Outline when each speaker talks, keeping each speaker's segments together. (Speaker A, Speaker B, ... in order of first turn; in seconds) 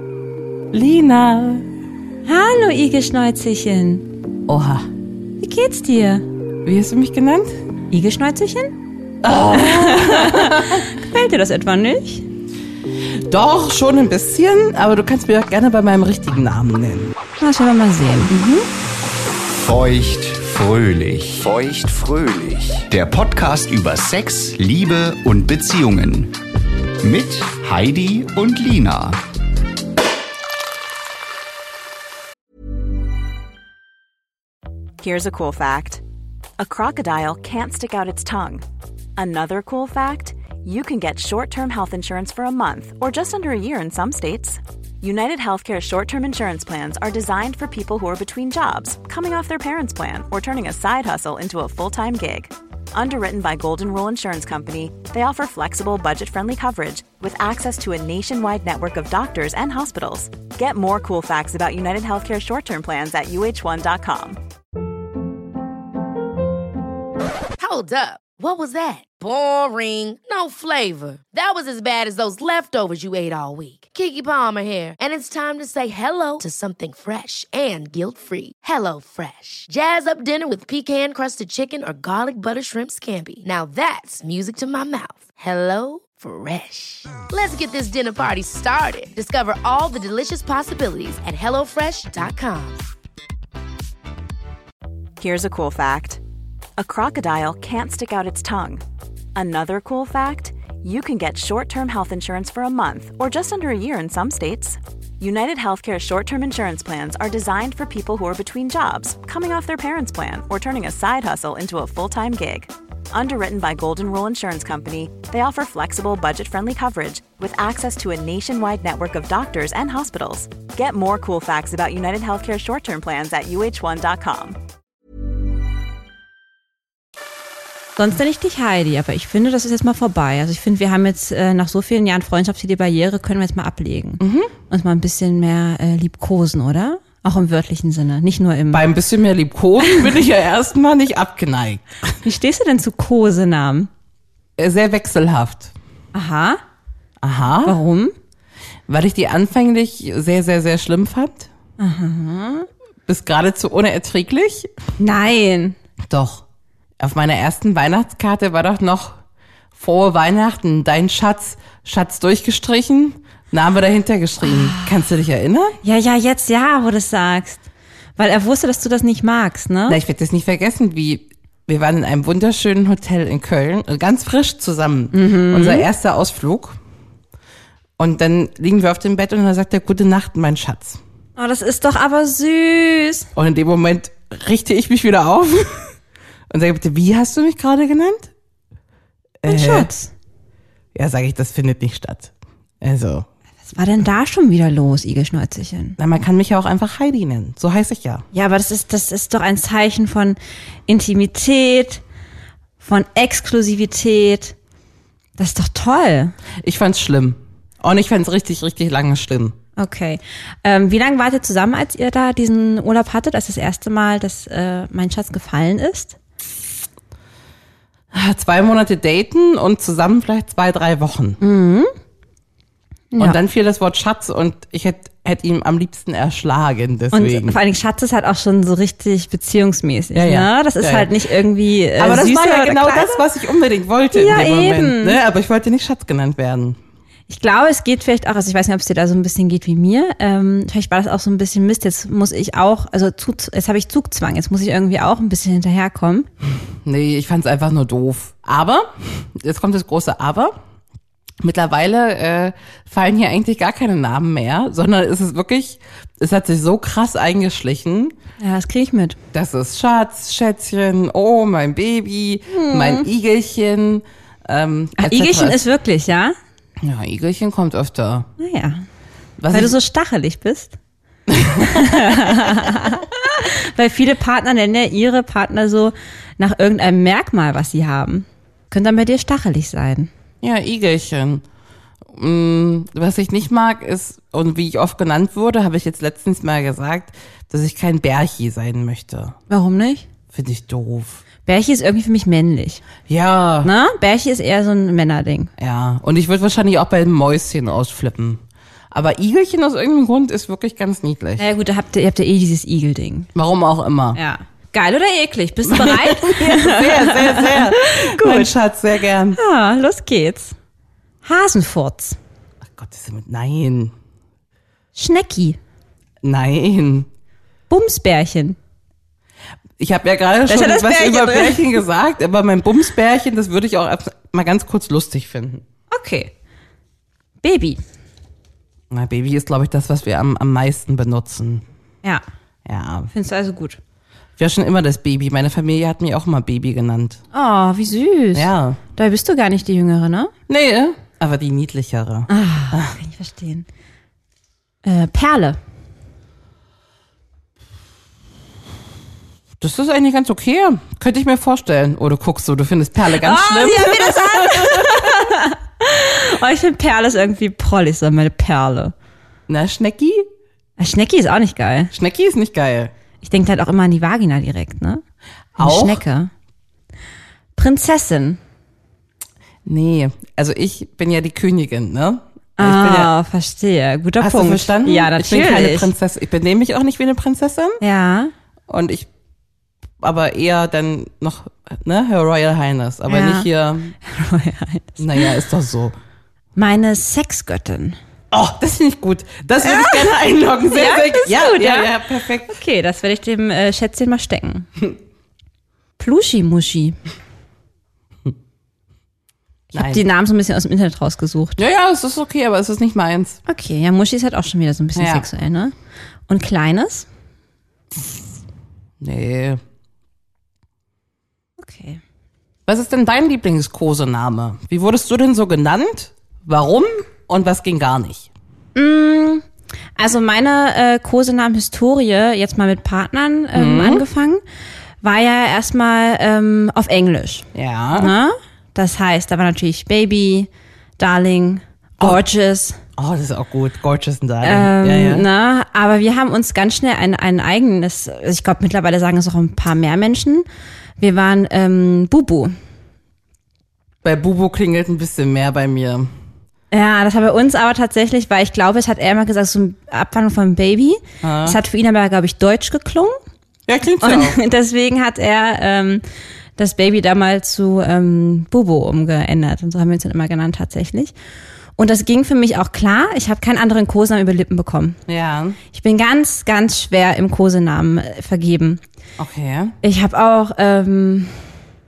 Speaker A: 0.7-1.7, 4.5-4.9, 6.6-7.5, 9.2-10.9, 13.0-17.2, 18.3-18.6, 134.2-134.5, 138.7-142.1, 144.6-145.7, 147.2-147.8, 148.9-151.5, 153.1-154.7, 156.1-156.4, 157.0-159.2, 159.8-165.8, 169.9-176.8, 178.0-181.0, 183.3-185.9, 186.5-188.3, 189.4-189.9, 190.9-193.3, 196.0-198.2, 206.6-209.6, 218.1-221.4, 223.2-227.6, 230.1-231.1, 232.0-236.8, 246.8-250.6, 251.4-258.2, 259.3-265.6, 266.8-268.3, 269.4-269.8, 271.3-272.4, 280.4-281.4, 282.1-289.4, 290.3-291.2, 293.1-293.7, 295.6-301.5, 303.4-304.2, 305.7-309.4, 312.7-313.9, 316.2-317.1, 319.8-325.6, 328.9-331.6, 332.7-333.1, 334.4-337.2, 338.4-338.8, 340.5-343.0, 349.6-355.3, 359.5-360.3, 361.9-362.9, 365.6-366.0, 369.6-373.1, 374.2-377.8, 378.7-379.1, 380.0-383.9, 385.0-386.0, 388.3-392.6, 399.7-400.0, 401.6-403.4, 405.0-405.3, 409.0-409.6, 412.7-418.3, 423.5-424.1, 427.5-428.1, 433.0-435.3, 444.0-446.1, 451.2-451.6, 453.7-454.4, 465.1-465.6, 469.2-469.8
Speaker B: 2.2-4.1, 5.4-6.3, 7.9-8.8, 9.3-12.3, 17.4-18.5, 128.0-138.8, 139.8-140.1, 142.2-143.9, 146.1-146.6, 147.7-148.1, 151.8-152.7, 155.0-155.8, 164.4-165.0, 165.8-167.6, 168.2-170.0, 175.1-175.9, 181.4-183.3, 189.5-190.1, 193.7-196.0, 198.3-202.0, 202.8-204.6, 205.4-206.4, 209.8-216.2, 221.4-221.9, 223.1-223.4, 227.1-233.2, 234.1-235.2, 237.3-246.3, 258.4-259.2, 262.5-263.1, 265.0-266.4, 268.4-268.8, 269.5-270.8, 271.6-280.1, 289.5-290.1, 291.4-292.8, 293.6-295.5, 301.4-303.3, 304.1-308.5, 309.4-310.6, 311.2-312.2, 314.9-315.6, 317.7-318.6, 320.5-321.8, 325.9-326.3, 327.4-327.8, 333.1-333.8, 337.3-340.3, 342.3-343.7, 344.8-345.6, 353.1-358.9, 360.8-361.9, 363.2-365.0, 365.6-366.3, 367.6-368.4, 372.6-375.9, 377.8-378.3, 383.1-383.5, 384.0-385.3, 386.6-388.0, 389.6-390.1, 390.7-391.9, 392.5-394.7, 396.0-397.0, 399.7-401.6, 403.5-405.7, 406.3-407.1, 411.6-412.0, 418.8-419.4, 420.0-424.4, 425.0-432.8, 434.4-440.5, 441.0-442.5, 446.7-453.2, 454.0-456.0, 456.6-461.1, 461.8-465.0, 465.7-468.8, 469.8-471.4
Speaker C: 19.5-26.4, 27.0-29.2
Speaker D: 35.0-36.0, 36.6-38.6, 39.2-64.4, 95.2-96.2, 96.8-98.8, 99.4-124.6
Speaker E: 67.6-92.8